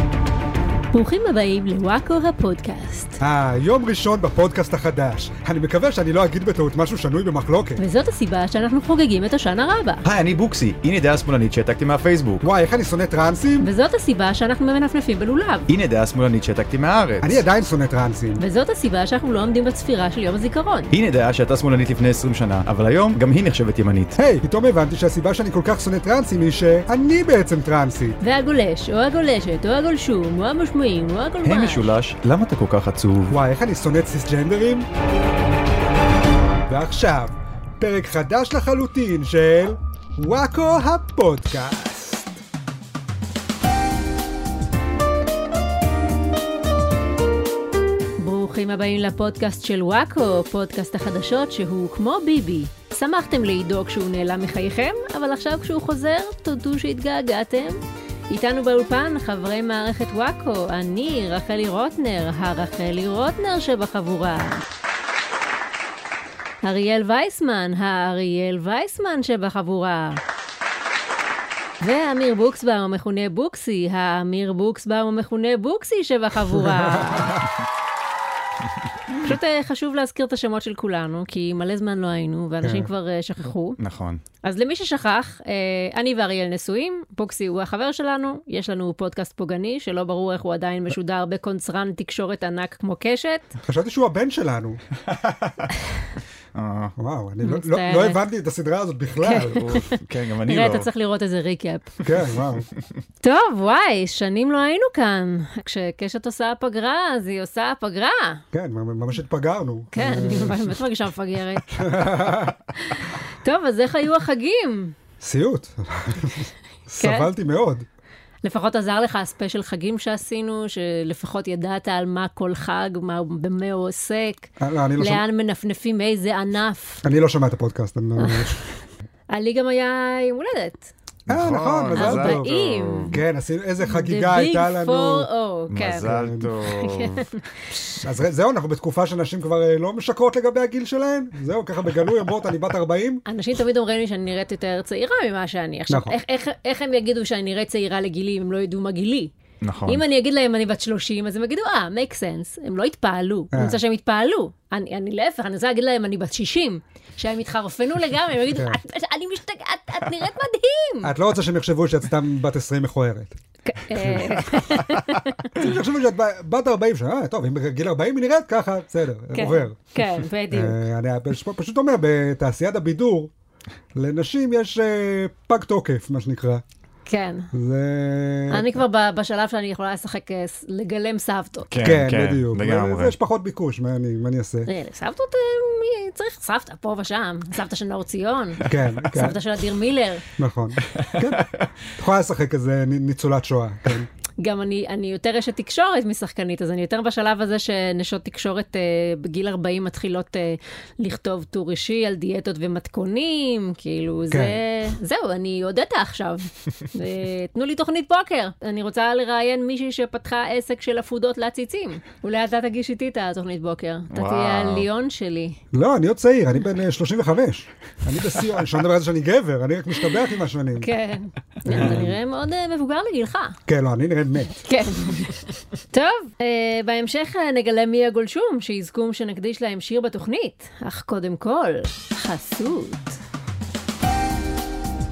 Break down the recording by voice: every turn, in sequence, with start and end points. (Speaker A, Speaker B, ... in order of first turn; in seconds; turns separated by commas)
Speaker A: 0.9-3.2, Speaker B: 3.2-7.8, Speaker A: 7.8-10.0, Speaker C: 10.1-12.4, Speaker B: 12.4-13.7, Speaker A: 13.6-15.7, Speaker C: 15.7-17.4, Speaker B: 17.2-18.4, Speaker A: 18.4-20.9, Speaker C: 20.9-24.2, Speaker B: 24.2-28.2, Speaker A: 28.2-31.9, Speaker C: 31.4-33.4, Speaker B: 33.3-34.9, Speaker B: 36.7-42.4, Speaker A: 48.2-57.8, Speaker A: 58.3-64.6, Speaker A: 66.6-70.2, Speaker A: 71.8-77.4, Speaker A: 79.2-83.8, Speaker B: 82.6-82.9, Speaker C: 83.8-84.2, Speaker A: 84.4-93.5, Speaker B: 93.6-94.8, Speaker C: 95.0-95.7, Speaker C: 96.5-96.9, Speaker B: 97.0-99.8, Speaker A: 97.4-98.2, Speaker A: 99.2-102.0, Speaker C: 99.6-100.9, Speaker B: 102.0-102.7, Speaker A: 103.2-108.4, Speaker B: 108.5-110.7, Speaker A: 109.9-112.0, Speaker B: 111.7-112.6, Speaker A: 112.8-115.0, Speaker B: 115.2-117.8, Speaker A: 117.0-117.3, Speaker A: 118.4-127.0, Speaker B: 124.6-125.2, Speaker B: 127.0-128.6, Speaker A: 128.2-128.6, Speaker A: 129.3-130.9, Speaker B: 131.3-132.5, Speaker C: 131.3-133.2, Speaker A: 132.0-133.2, Speaker B: 133.1-135.3, Speaker A: 133.8-136.1, Speaker C: 135.7-137.3, Speaker B: 136.0-136.5, Speaker A: 136.6-137.4, Speaker B: 138.0-143.2, Speaker A: 143.3-149.3, Speaker B: 145.9-146.2, Speaker C: 149.6-150.0, Speaker A: 149.9-161.1, Speaker B: 153.5-153.8, Speaker B: 158.5-158.8, Speaker B: 161.0-163.4, Speaker A: 163.7-165.6, Speaker B: 163.9-164.8, Speaker B: 165.5-169.8, Speaker A: 169.3-170.8, Speaker B: 170.5-173.3, Speaker B: 173.9-176.6, Speaker A: 177.1-177.5, Speaker B: 177.5-178.8, Speaker A: 178.5-181.7, Speaker C: 181.7-183.2, Speaker B: 181.8-184.7, Speaker A: 184.7-190.2, Speaker B: 188.6-189.4, Speaker B: 190.4-194.1, Speaker C: 190.9-191.7, Speaker A: 194.4-215.6, Speaker B: 204.3-204.6, Speaker C: 214.1-214.9, Speaker B: 215.7-220.9, Speaker A: 220.8-223.6, Speaker B: 221.7-222.2, Speaker B: 223.7-224.6, Speaker A: 224.6-233.2